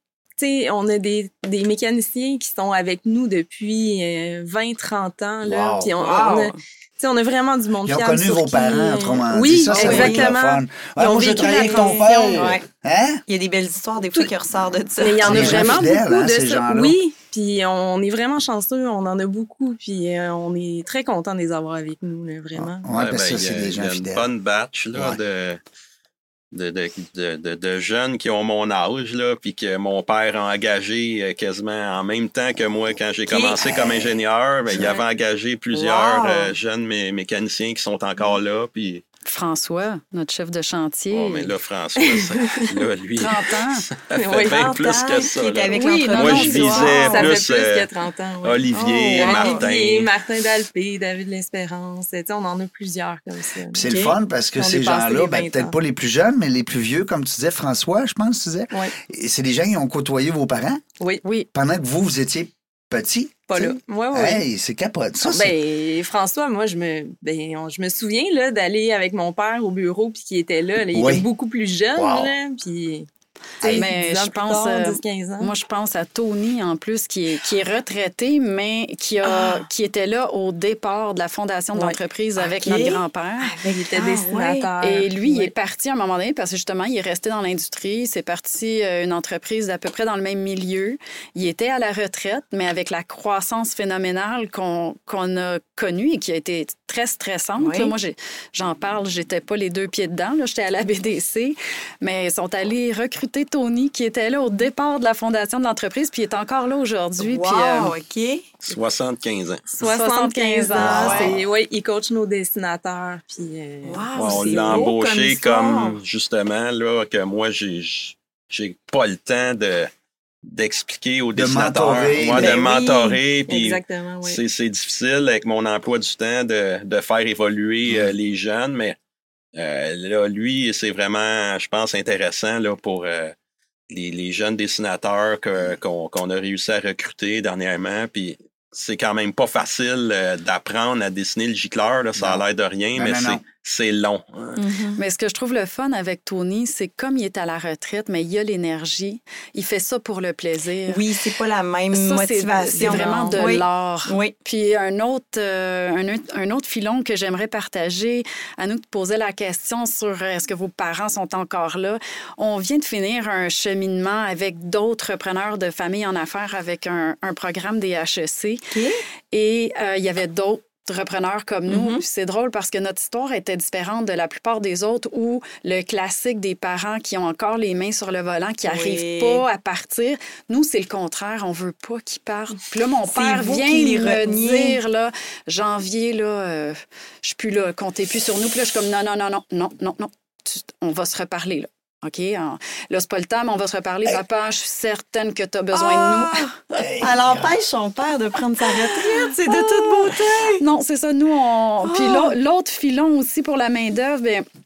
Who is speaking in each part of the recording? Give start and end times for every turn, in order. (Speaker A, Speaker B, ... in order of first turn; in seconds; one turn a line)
Speaker A: 0.4-12.5
Speaker B: 5.4-6.0
Speaker C: 6.0-6.5
Speaker B: 7.8-13.2
Speaker C: 9.7-10.3
Speaker C: 11.4-12.6
Speaker C: 13.3-15.8
Speaker A: 15.0-22.9
Speaker B: 15.2-17.0
Speaker B: 22.6-24.3
Speaker D: 22.9-25.6
Speaker B: 24.9-25.2
Speaker D: 26.5-39.0
Speaker C: 33.3-34.0
Speaker C: 35.7-36.5
Speaker E: 39.2-41.5
Speaker D: 41.1-47.9
Speaker A: 42.0-42.8
Speaker E: 43.2-43.9
Speaker A: 44.1-44.7
Speaker C: 44.4-47.4
Speaker A: 45.7-53.9
Speaker E: 45.8-46.7
Speaker D: 48.4-50.1
Speaker C: 48.7-49.6
Speaker B: 53.7-60.8
Speaker C: 53.8-54.1
Speaker A: 54.5-55.7
Speaker B: 61.5-65.5
Speaker A: 63.5-64.4
Speaker A: 65.2-73.1
Speaker B: 70.9-71.3
Speaker B: 71.9-72.3
Speaker B: 73.6-73.9
Speaker A: 73.6-75.5
Speaker E: 73.7-83.6
Speaker C: 79.2-79.6
Speaker C: 82.4-83.0
Speaker A: 83.5-85.5
Speaker C: 83.9-84.7
Speaker E: 84.8-107.9
Speaker C: 97.6-97.9
Speaker C: 107.2-108.5
Speaker D: 108.7-109.7
Speaker A: 109.8-114.9
Speaker E: 109.8-111.4
Speaker D: 110.7-111.4
Speaker C: 113.8-116.0
Speaker D: 114.1-119.9
Speaker D: 120.4-129.0
Speaker B: 121.3-122.6
Speaker C: 122.4-122.7
Speaker A: 122.6-124.4
Speaker B: 127.9-128.1
Speaker D: 129.5-133.3
Speaker D: 133.9-144.6
Speaker B: 142.2-142.4
Speaker B: 142.9-143.4
Speaker C: 144.6-145.0
Speaker E: 145.0-151.0
Speaker C: 150.9-154.3
Speaker E: 151.9-168.6
Speaker A: 152.8-153.4
Speaker C: 168.7-169.0
Speaker E: 169.3-196.5
Speaker C: 171.7-172.0
Speaker C: 178.7-179.4
Speaker C: 183.1-184.8
Speaker C: 195.7-200.6
Speaker B: 196.7-197.6
Speaker E: 199.1-204.4
Speaker C: 201.8-202.3